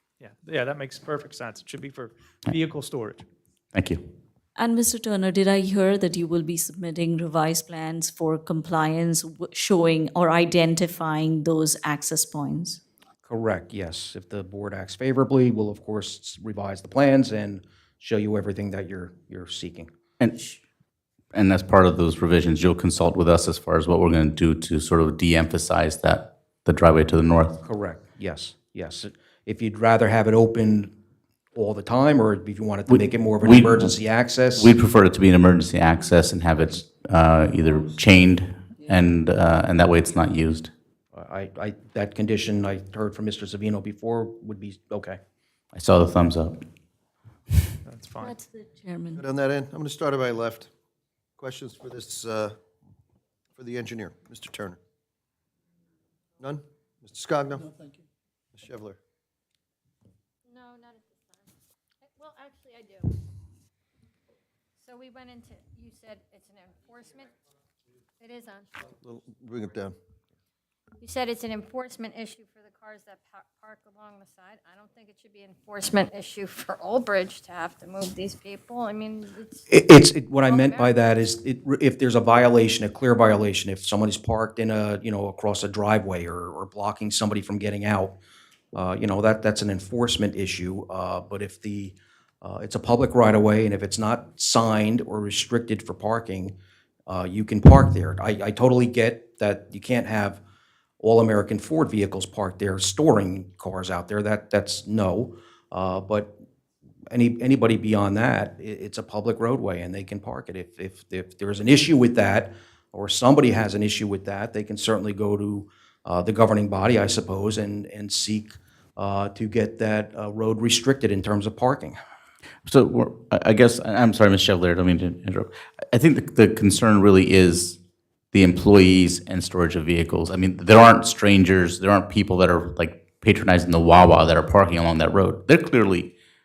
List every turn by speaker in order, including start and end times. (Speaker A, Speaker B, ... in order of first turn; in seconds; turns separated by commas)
Speaker A: 0.2-3.2, Speaker B: 3.7-4.0, Speaker C: 4.5-12.8, Speaker D: 13.2-19.9, Speaker B: 20.2-20.6, Speaker B: 21.3-27.6, Speaker D: 27.6-30.9, Speaker D: 31.5-34.7, Speaker B: 32.9-34.0, Speaker B: 34.5-40.7, Speaker D: 41.1-45.2, Speaker B: 45.7-46.6, Speaker A: 47.9-48.3, Speaker C: 48.2-49.2, Speaker E: 49.1-50.7, Speaker E: 51.4-52.5, Speaker E: 53.6-54.8, Speaker E: 56.4-57.7, Speaker E: 58.5-59.0, Speaker F: 60.5-61.5, Speaker F: 62.0-63.1, Speaker F: 64.8-67.3, Speaker F: 68.2-68.9, Speaker E: 68.9-69.9, Speaker F: 71.0-79.7, Speaker D: 79.7-88.2, Speaker F: 80.4-81.0, Speaker D: 88.7-96.5, Speaker D: 97.1-100.4, Speaker D: 101.0-106.3, Speaker D: 107.1-122.0, Speaker B: 122.7-127.8, Speaker B: 128.3-136.1